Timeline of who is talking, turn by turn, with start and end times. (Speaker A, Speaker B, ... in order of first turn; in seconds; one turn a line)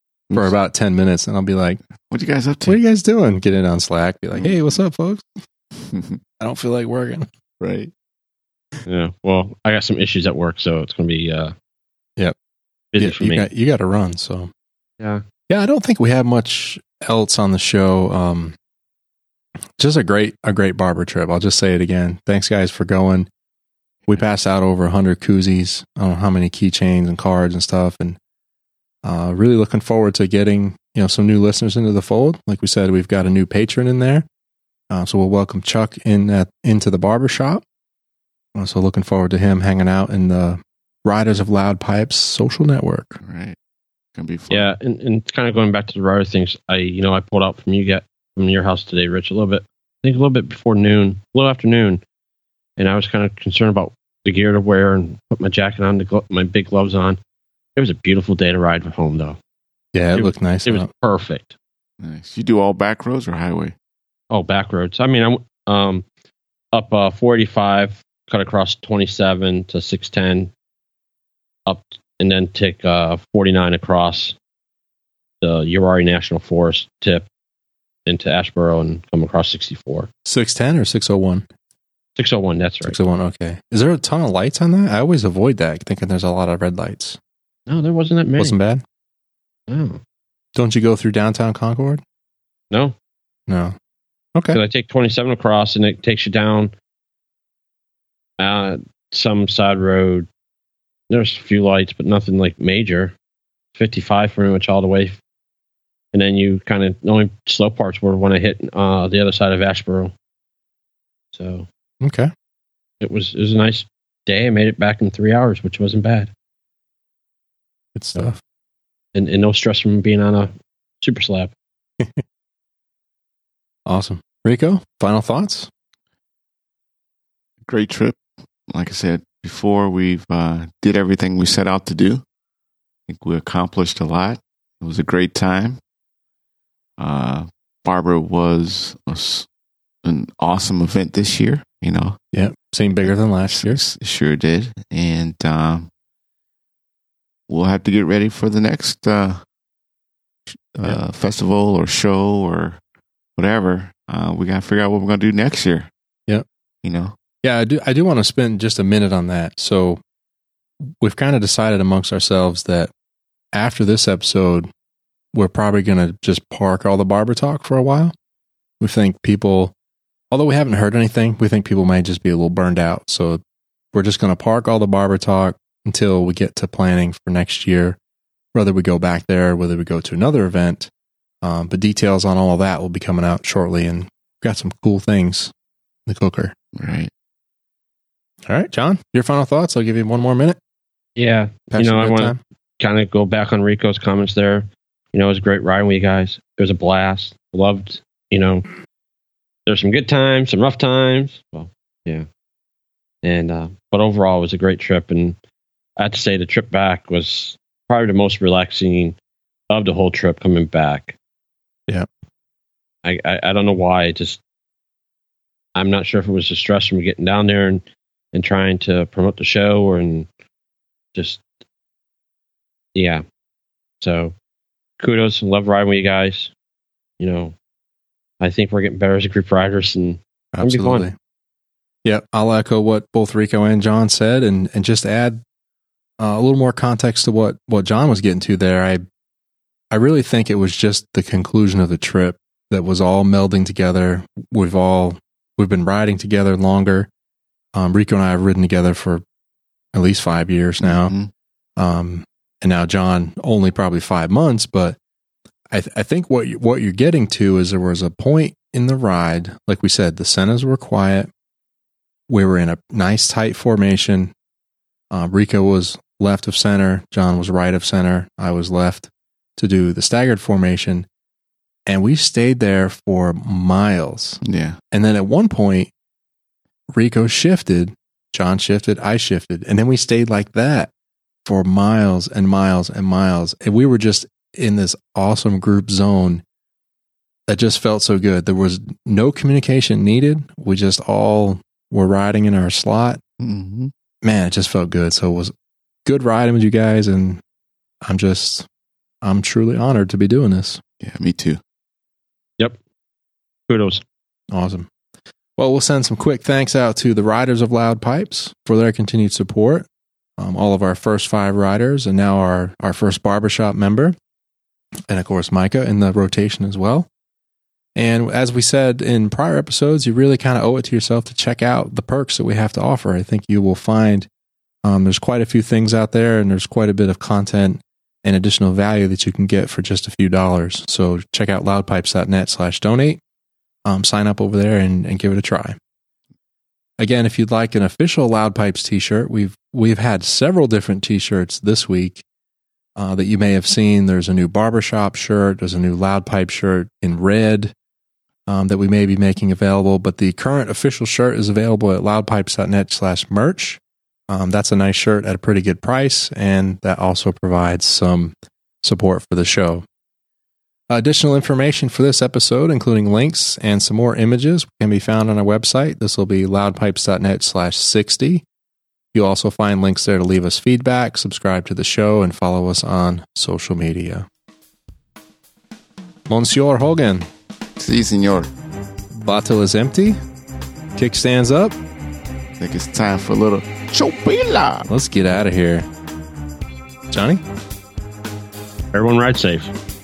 Speaker A: 0.3-1.8
Speaker B: 2.1-2.8
Speaker A: 2.6-5.2
Speaker B: 5.9-6.2
Speaker A: 6.4-7.3
Speaker B: 7.6-7.9
Speaker C: 8.8-11.5
Speaker C: 12.9-13.5
Speaker A: 13.0-14.5
Speaker A: 15.5-18.5
Speaker A: 19.8-23.3
Speaker A: 24.1-28.2
Speaker A: 29.0-34.2
Speaker A: 34.9-37.6
Speaker A: 38.5-43.2
Speaker B: 43.2-43.5
Speaker B: 44.1-44.7
Speaker C: 44.5-52.0
Speaker C: 52.8-57.2
Speaker C: 57.8-59.4
Speaker A: 59.9-60.9
Speaker C: 60.1-61.5
Speaker B: 62.0-63.7
Speaker C: 64.3-66.0
Speaker C: 66.7-70.5
Speaker C: 71.7-74.3
Speaker C: 75.4-77.2
Speaker C: 78.0-80.1
Speaker A: 80.2-81.5
Speaker C: 82.2-83.0
Speaker A: 82.8-87.2
Speaker C: 87.7-88.6
Speaker A: 88.4-88.8
Speaker C: 89.7-90.0
Speaker A: 90.5-92.0
Speaker A: 93.5-93.7
Speaker C: 94.5-96.7
Speaker C: 98.4-100.3
Speaker C: 101.1-103.1
Speaker C: 103.7-105.2
Speaker C: 106.1-110.1
Speaker C: 111.3-111.7
Speaker A: 112.0-112.3
Speaker C: 113.0-116.3
Speaker A: 117.9-118.4
Speaker C: 119.1-121.5
Speaker A: 123.8-125.7
Speaker B: 127.6-128.2
Speaker B: 128.7-132.2
Speaker B: 133.1-135.8
Speaker B: 137.0-139.4
Speaker B: 140.0-142.2
Speaker A: 142.3-143.8
Speaker B: 143.1-145.9
Speaker B: 147.5-149.4
Speaker B: 150.5-152.8
Speaker B: 153.4-155.9
Speaker B: 156.8-157.1
Speaker A: 157.4-160.0
Speaker A: 161.0-162.9
Speaker A: 163.5-164.7
Speaker A: 165.3-168.1
Speaker A: 168.8-169.7
Speaker A: 170.3-173.4
Speaker A: 173.9-178.0
Speaker A: 178.5-180.9
Speaker A: 181.4-185.5
Speaker A: 186.1-186.5
Speaker B: 186.7-187.1
Speaker A: 188.5-190.6
Speaker C: 191.2-198.6
Speaker A: 191.7-192.4
Speaker C: 199.7-202.2
Speaker C: 203.2-205.4
Speaker C: 206.0-209.2
Speaker C: 209.7-211.2
Speaker C: 213.0-214.4
Speaker C: 215.7-220.3
Speaker C: 221.1-221.4
Speaker C: 222.9-223.2
Speaker C: 224.0-224.3
Speaker C: 225.0-226.5
Speaker C: 227.2-227.5
Speaker C: 228.4-231.1
Speaker A: 230.5-231.1
Speaker A: 232.0-235.4
Speaker A: 236.2-239.0
Speaker A: 239.9-247.1
Speaker A: 247.7-249.2
Speaker A: 249.9-251.1
Speaker B: 250.8-251.3
Speaker A: 251.8-255.0
Speaker A: 255.7-261.3
Speaker A: 262.3-264.3
Speaker A: 265.1-271.1
Speaker A: 271.9-274.4
Speaker B: 274.4-274.8
Speaker A: 274.9-275.9
Speaker A: 276.9-280.9
Speaker A: 281.4-286.4
Speaker A: 287.5-293.2
Speaker B: 293.4-293.9
Speaker A: 294.2-295.5
Speaker A: 296.0-297.4
Speaker A: 298.0-298.6
Speaker A: 299.2-300.8
Speaker B: 301.0-301.6
Speaker C: 303.7-304.0
Speaker A: 304.5-304.9
Speaker A: 305.6-309.9
Speaker A: 310.4-314.1
Speaker A: 315.1-317.1
Speaker A: 317.9-324.3
Speaker A: 324.8-333.2
Speaker A: 333.8-335.8
Speaker A: 337.0-342.2
Speaker A: 342.9-347.7
Speaker A: 348.5-359.8
Speaker A: 360.9-368.4
Speaker A: 369.1-374.2
Speaker A: 376.3-377.3
Speaker B: 377.8-378.5
Speaker A: 379.1-380.2
Speaker A: 380.9-381.8
Speaker B: 382.6-384.9
Speaker A: 384.9-385.9
Speaker A: 387.1-387.4
Speaker C: 388.9-389.7